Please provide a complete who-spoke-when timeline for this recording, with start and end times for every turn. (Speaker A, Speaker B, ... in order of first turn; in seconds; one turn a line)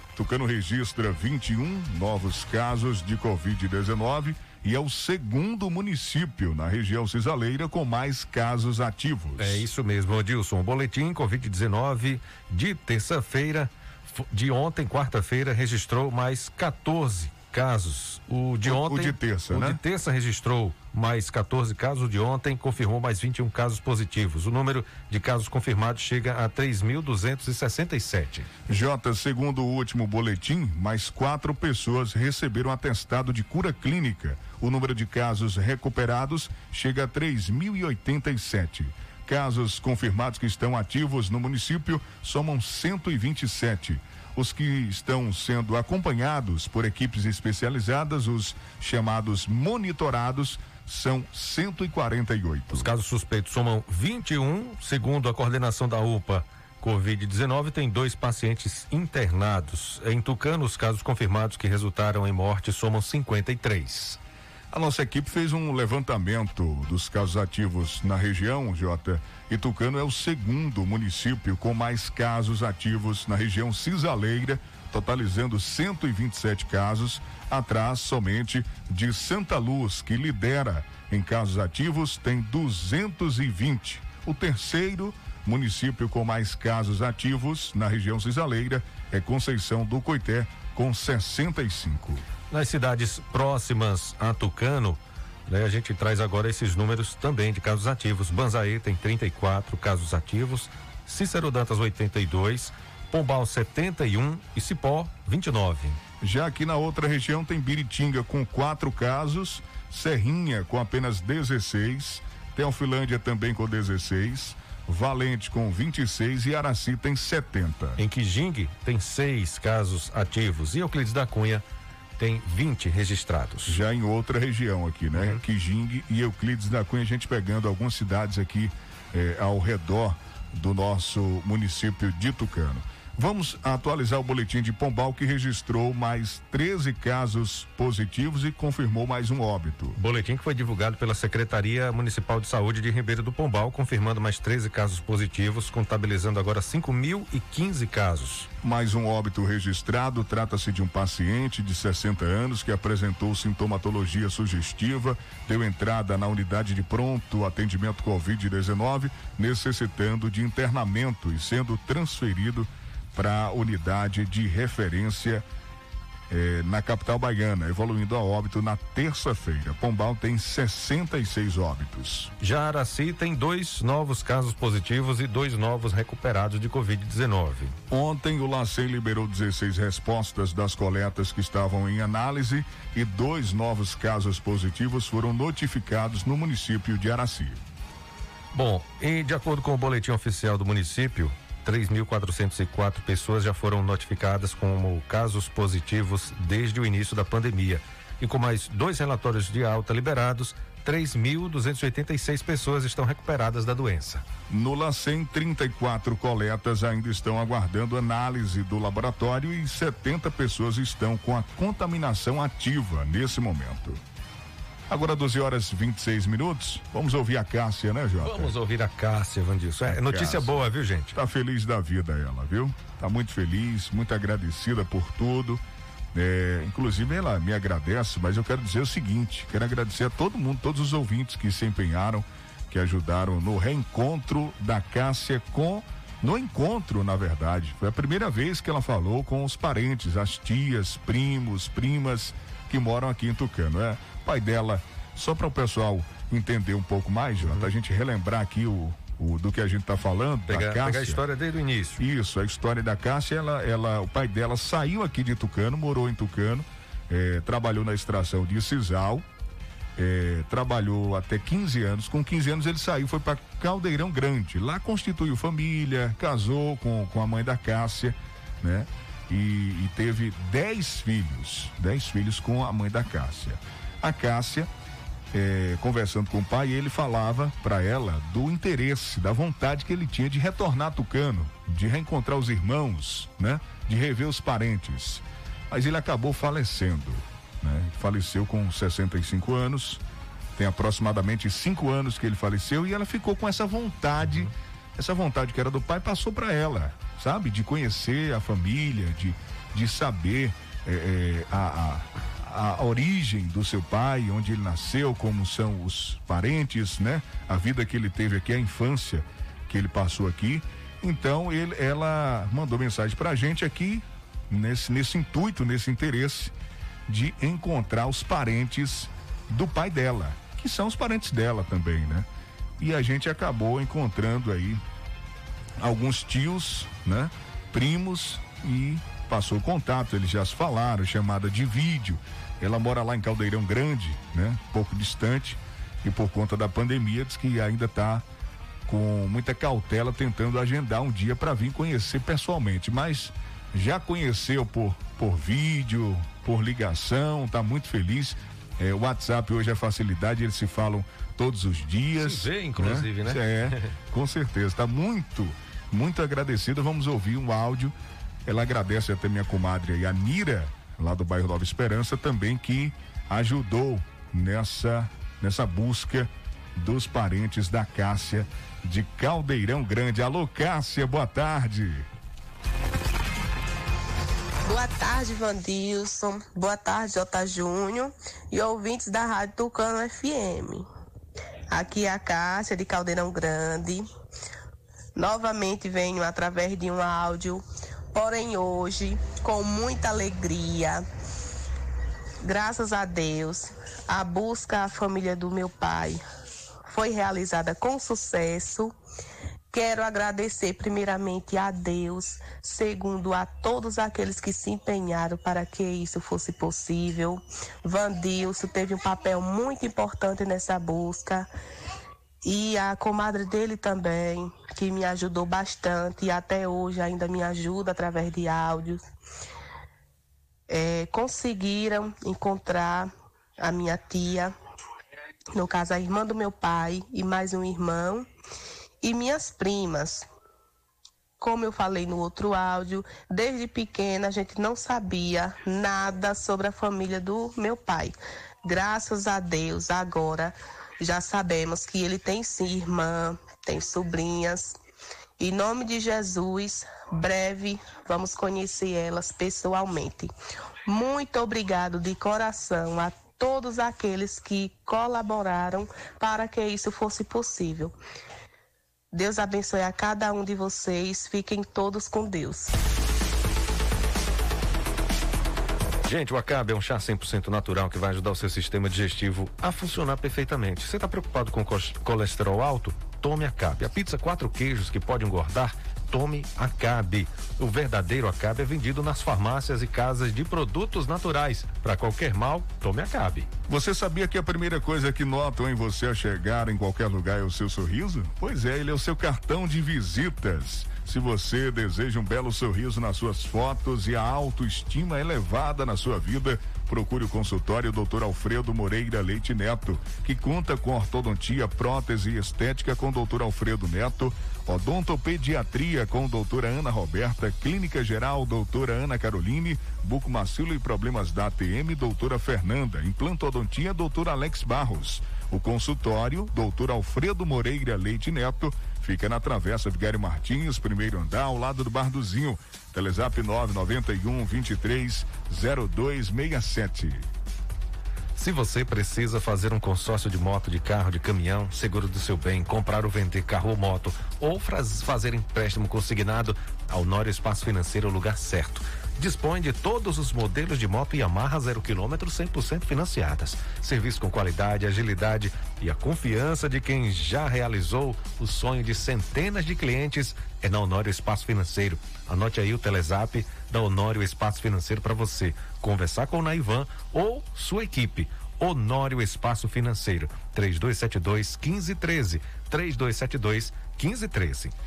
Speaker A: 0.1-9.6
Speaker B: 9.4-28.5
Speaker A: 18.6-19.8
Speaker A: 28.7-52.9
Speaker B: 52.7-64.2
Speaker A: 64.7-92.2
Speaker B: 92.5-106.0
Speaker A: 106.2-118.0
Speaker B: 118.0-121.6
Speaker B: 122.2-123.8
Speaker A: 123.7-140.0
Speaker B: 140.0-148.5
Speaker A: 148.6-165.4
Speaker A: 166.3-172.3
Speaker B: 172.4-177.8
Speaker A: 177.9-187.6
Speaker B: 188.5-204.2
Speaker A: 204.5-214.0
Speaker A: 214.9-218.6
Speaker B: 218.2-221.1
Speaker A: 219.9-220.6
Speaker A: 221.1-225.6
Speaker A: 226.1-251.2
Speaker B: 250.5-252.0
Speaker A: 252.0-259.3
Speaker A: 260.0-274.7
Speaker A: 275.3-290.0
Speaker A: 290.6-316.5
Speaker A: 317.1-322.3
Speaker A: 322.8-324.8
Speaker A: 325.8-338.2
Speaker A: 338.9-357.9
Speaker B: 352.2-353.9
Speaker A: 358.5-372.1
Speaker C: 374.7-380.9
Speaker C: 381.7-384.1
Speaker C: 385.2-391.0
Speaker C: 392.4-396.2
Speaker C: 396.9-398.9
Speaker C: 399.7-411.5
Speaker C: 412.4-419.0
Speaker C: 420.7-424.5
Speaker C: 425.5-428.3
Speaker C: 429.0-430.3
Speaker C: 431.4-444.7
Speaker C: 445.4-450.3
Speaker C: 450.9-457.9
Speaker C: 459.1-462.7
Speaker B: 466.1-483.5
Speaker A: 483.7-527.3
Speaker B: 528.4-564.7